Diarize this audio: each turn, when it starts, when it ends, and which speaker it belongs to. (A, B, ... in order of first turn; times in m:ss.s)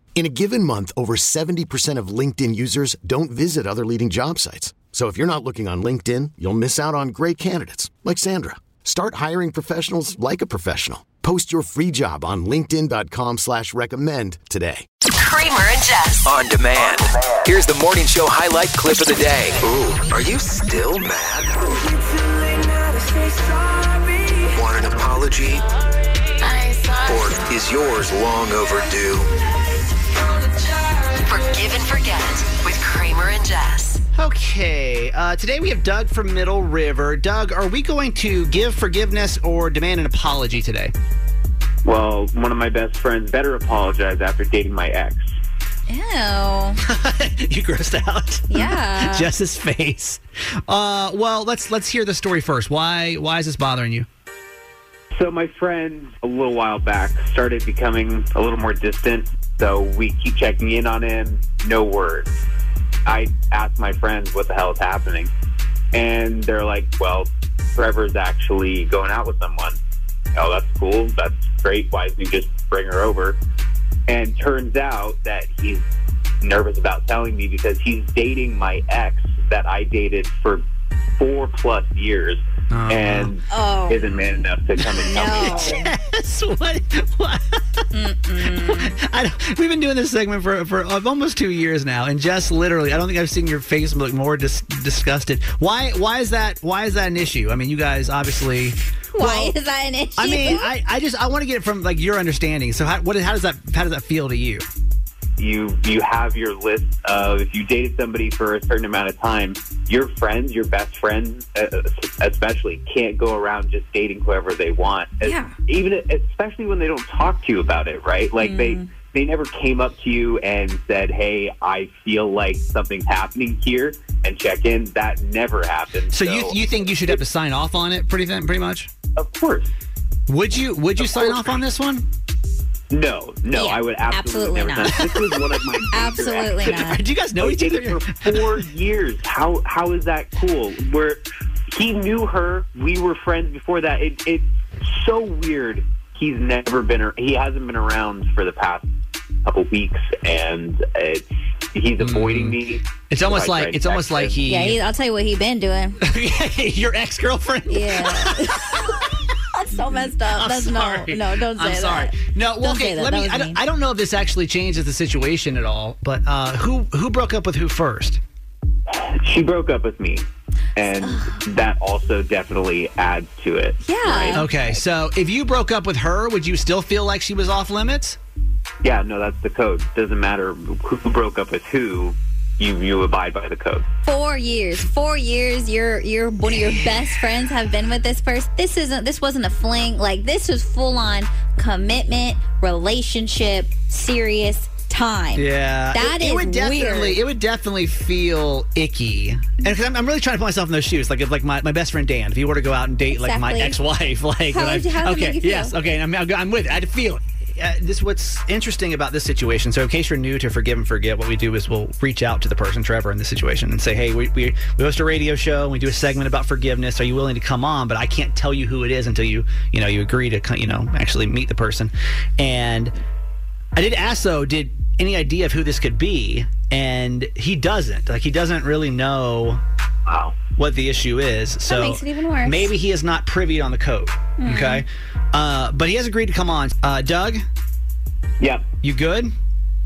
0:00.2-0:14.8 A
0:15.2-0:16.2 B
0:16.2-0:21.5 C
0:24.5-0:25.6 C
0:27.0-0:29.3 C
0:31.2-0:34.0 B
0:34.1-0:40.9 D
0:41.8-0:45.3 E
0:45.9-0:46.8 F
0:46.9-0:54.1 D
0:48.5-0:49.3 F
0:55.1-1:02.3 E
1:03.0-1:05.3 E
1:05.9-1:09.8 E
1:10.3-1:13.4 E
1:14.1-1:15.8 E
1:16.4-1:20.6 E
1:21.2-1:25.6 E
1:22.7-1:23.3 D
1:23.5-1:24.5 F
1:24.8-1:27.6 D
1:25.0-1:25.9 F
1:27.9-1:29.0 F
1:28.4-1:39.5 D
1:39.1-1:40.7 F
1:40.2-1:44.7 D
1:45.4-2:07.2 E
1:55.2-1:55.6 F
1:58.4-1:58.9 F
2:06.1-2:08.9 D
2:09.2-2:09.7 E
2:10.3-2:12.0 D
2:11.0-2:11.6 E
2:12.9-2:16.8 E
2:13.5-2:14.9 F
2:14.8-2:15.5 D
2:15.8-2:17.0 F
2:16.6-2:18.7 D
2:17.4-2:21.2 E
2:21.7-2:28.8 E
2:29.4-2:34.4 E
2:32.0-2:34.8 D
2:34.4-2:36.0 F
2:36.0-2:39.1 D
2:37.7-2:43.6 F
2:39.9-2:48.2 D
2:49.0-2:50.2 E
2:50.8-2:54.4 E
2:51.0-2:51.4 F
2:53.8-2:54.5 F
2:54.3-2:58.2 D
2:58.8-3:03.8 E
3:04.0-3:17.2 F
3:06.5-3:07.1 D
3:15.4-3:42.9 D
3:23.1-3:23.8 F
3:24.5-3:25.8 F
3:43.8-3:49.6 D
3:50.1-3:50.3 E
3:50.6-3:57.4 D
3:51.7-3:52.7 F
3:54.4-3:54.8 F
3:58.8-3:59.3 D